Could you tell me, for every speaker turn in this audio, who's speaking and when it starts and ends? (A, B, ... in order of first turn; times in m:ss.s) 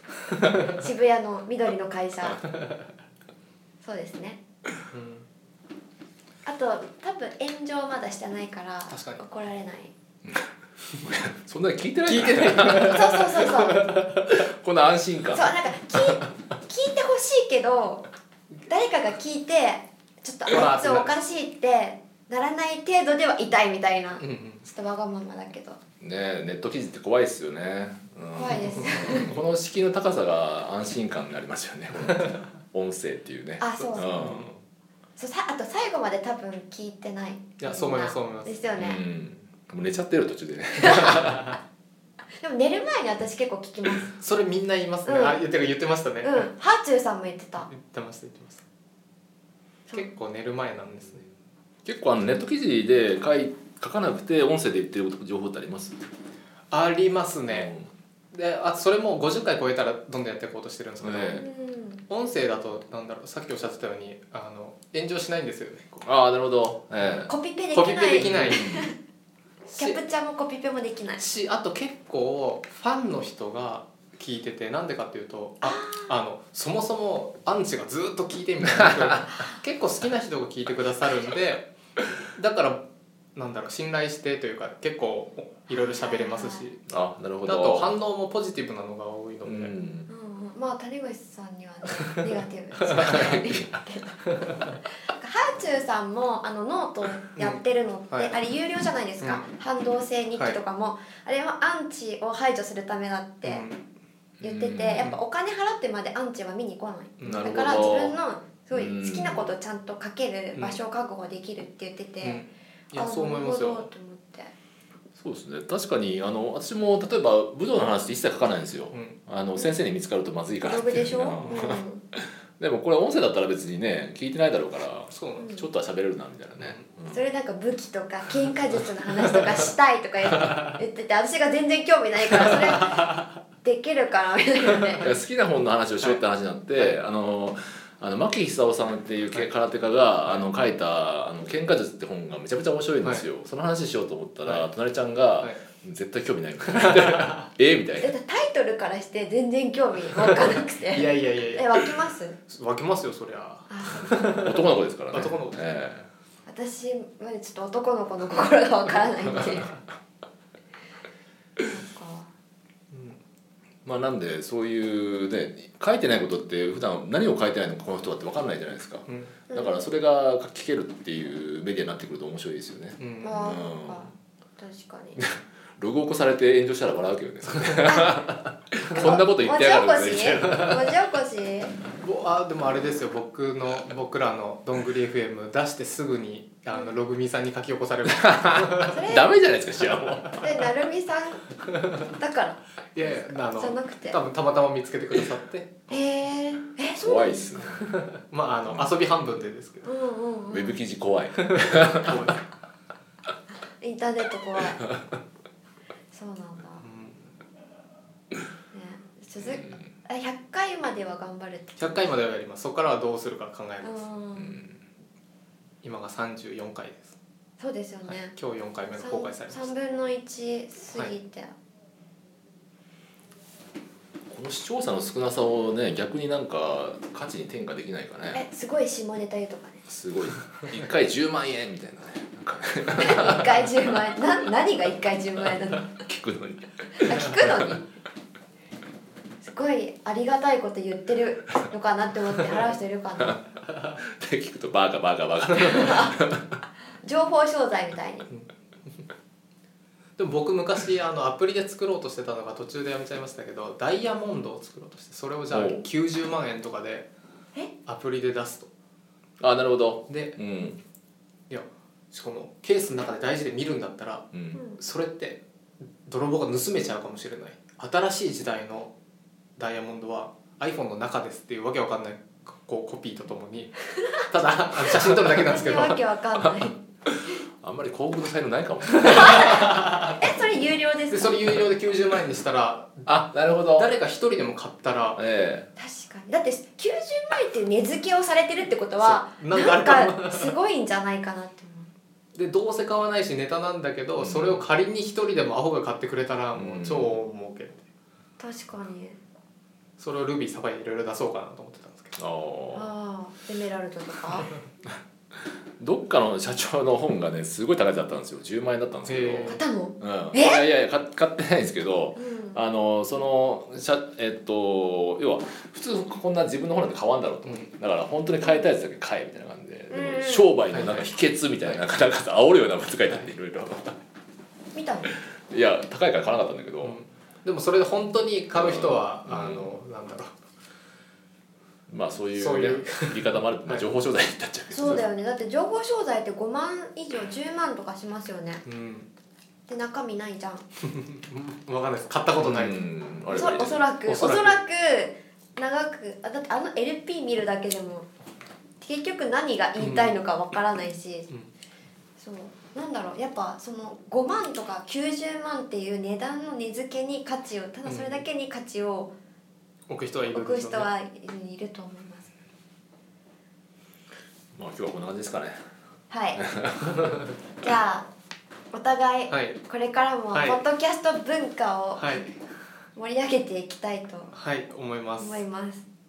0:00.8-0:02.4 A
0:03.8-0:04.4 A
0:04.9-0:05.2 B
0:06.4-0:09.9 A
0:08.9-0:09.2 B
0:11.0-0:13.4 C
0:12.0-0:14.3 B
0:12.6-0:13.9 A
0:14.2-0:15.5 C
0:15.3-0:18.0 A
0:18.7-0:25.8 A
0:20.5-0:21.2 B
0:24.2-0:24.6 B
0:26.0-0:34.6 C
0:28.3-0:29.3 A
0:28.5-0:28.8 B
0:33.6-0:34.1 A
0:33.8-0:34.5 B
0:35.2-0:39.0 A
0:37.6-0:38.6 B
0:38.8-0:41.5 C
0:40.8-0:41.1 A
0:42.4-0:44.1 A
0:44.2-0:46.5 B
0:45.0-0:45.4 A
0:46.2-0:47.7 A
0:47.6-0:48.6 B
0:49.9-0:51.2 B
0:51.8-0:56.0 C
0:56.7-0:57.7 B
0:57.5-0:57.9 C
0:58.3-1:01.4 B
1:01.0-1:01.4 C
1:01.3-1:02.0 A
1:02.1-1:06.0 B
1:06.0-1:07.3 C
1:07.2-1:08.9 A
1:07.7-1:08.6 B
1:08.2-1:08.9 C
1:09.7-1:11.2 A
1:09.7-1:10.0 B
1:11.2-1:21.7 B
1:15.6-1:16.1 A
1:22.3-1:22.8 B
1:23.4-1:26.8 B
1:25.7-1:26.7 A
1:26.9-1:27.9 C
1:27.4-1:29.7 B
1:29.4-1:30.1 C
1:30.1-1:43.6 A
1:32.9-1:33.7 C
1:37.3-1:38.3 B
1:43.4-1:43.8 B
1:44.4-1:45.1 C
1:44.4-1:52.4 A
1:47.2-1:47.5 B
1:47.2-1:48.2 C
1:48.7-1:49.5 C
1:50.5-1:50.8 B
1:52.2-1:53.9 B
1:52.9-1:54.5 A
1:55.2-2:07.2 C
1:58.9-1:59.2 B
2:00.6-2:02.0 A
2:05.1-2:05.5 B
2:05.4-2:05.7 A
2:06.6-2:06.8 B
2:07.1-2:15.1 A
2:15.0-2:28.1 C
2:26.7-2:27.3 B
2:28.0-2:32.4 A
2:30.9-2:31.7 B
2:32.5-2:35.6 B
2:33.7-2:34.2 A
2:34.2-2:36.1 C
2:36.4-2:39.7 A
2:41.6-2:42.3 A
2:42.9-2:43.2 B
2:43.8-2:54.1 C
2:49.1-2:49.3 B
2:49.5-2:49.8 A
2:53.0-2:53.4 B
2:53.2-2:55.2 A
2:55.2-3:00.7 C
2:57.8-2:58.2 A
2:58.9-3:01.8 A
3:02.0-3:09.0 B
3:08.2-3:10.5 C
3:08.8-3:09.3 A
3:10.3-3:14.2 A
3:12.9-3:16.0 B
3:15.9-3:17.5 A
3:17.0-3:18.0 C
3:17.9-3:19.9 B
3:18.7-3:19.0 C
3:19.8-3:20.8 A
3:20.5-3:22.3 C
3:21.4-3:22.4 B
3:23.8-3:24.8 A
3:26.1-3:26.8 A
3:26.8-3:27.3 B
3:28.7-3:32.1 A
3:29.4-3:29.8 C
3:31.8-3:34.0 B
3:33.8-3:34.5 A
3:34.4-3:34.8 C
3:35.8-3:37.1 B
3:37.6-3:38.3 A
3:38.1-3:39.7 B
3:39.0-3:41.5 A
3:44.3-3:48.4 C
3:48.3-3:49.9 A
3:49.9-3:53.7 C
3:53.0-3:56.0 A
3:56.0-3:57.7 C
3:57.0-3:57.8 A
3:59.4-4:03.4 A
4:04.0-4:06.6 C
4:05.7-4:06.2 A
4:07.0-4:08.3 A
4:10.2-4:17.1 B
4:15.5-4:15.8 C
4:17.8-4:18.7 B
4:19.4-4:20.8 C
4:20.1-4:20.4 B
4:21.5-4:25.4 B
4:24.3-4:24.6 C
4:26.0-4:28.9 B
4:29.6-4:36.0 B
4:35.2-4:36.8 A
4:37.1-4:39.6 C
4:38.9-4:40.2 B
4:39.0-4:41.4 A
4:41.1-4:45.2 B
4:43.1-4:43.9 C
4:45.2-4:45.7 C
4:45.8-4:51.9 A
4:49.0-4:50.5 B
4:52.3-4:57.8 B
4:54.2-4:54.6 C
4:56.5-4:57.2 C
4:58.4-4:59.2 A
5:00.0-5:02.2 B
5:02.2-5:02.9 C
5:02.7-5:04.5 A
5:05.8-5:24.0 C
5:09.0-5:09.6 B
5:09.4-5:10.7 A
5:12.2-5:12.6 A
5:19.9-5:20.5 A
5:20.7-5:21.1 B
5:24.7-5:25.1 A
5:25.5-5:27.0 C
5:26.8-5:30.3 B
5:28.5-5:29.7 C
5:31.9-5:35.0 C
5:32.4-5:33.8 B
5:34.7-5:38.6 A
5:38.6-5:39.1 B
5:39.7-5:40.6 A
5:40.8-5:42.8 B
5:42.4-5:43.8 C
5:43.3-5:48.1 A
5:44.0-5:44.5 B
5:48.8-5:51.3 A
5:49.8-5:50.2 B
5:52.2-5:59.1 A
5:57.8-5:58.2 B
5:59.9-6:00.9 B
6:00.3-6:02.3 A
6:04.5-6:05.6 C
6:06.1-6:06.4 A
6:06.5-6:07.0 C
6:07.6-6:08.1 A
6:08.7-6:12.3 A
6:09.3-6:09.6 B
6:10.3-6:10.6 B
6:12.0-6:12.3 B
6:12.9-6:14.3 A
6:14.3-6:15.4 B
6:15.2-6:15.8 A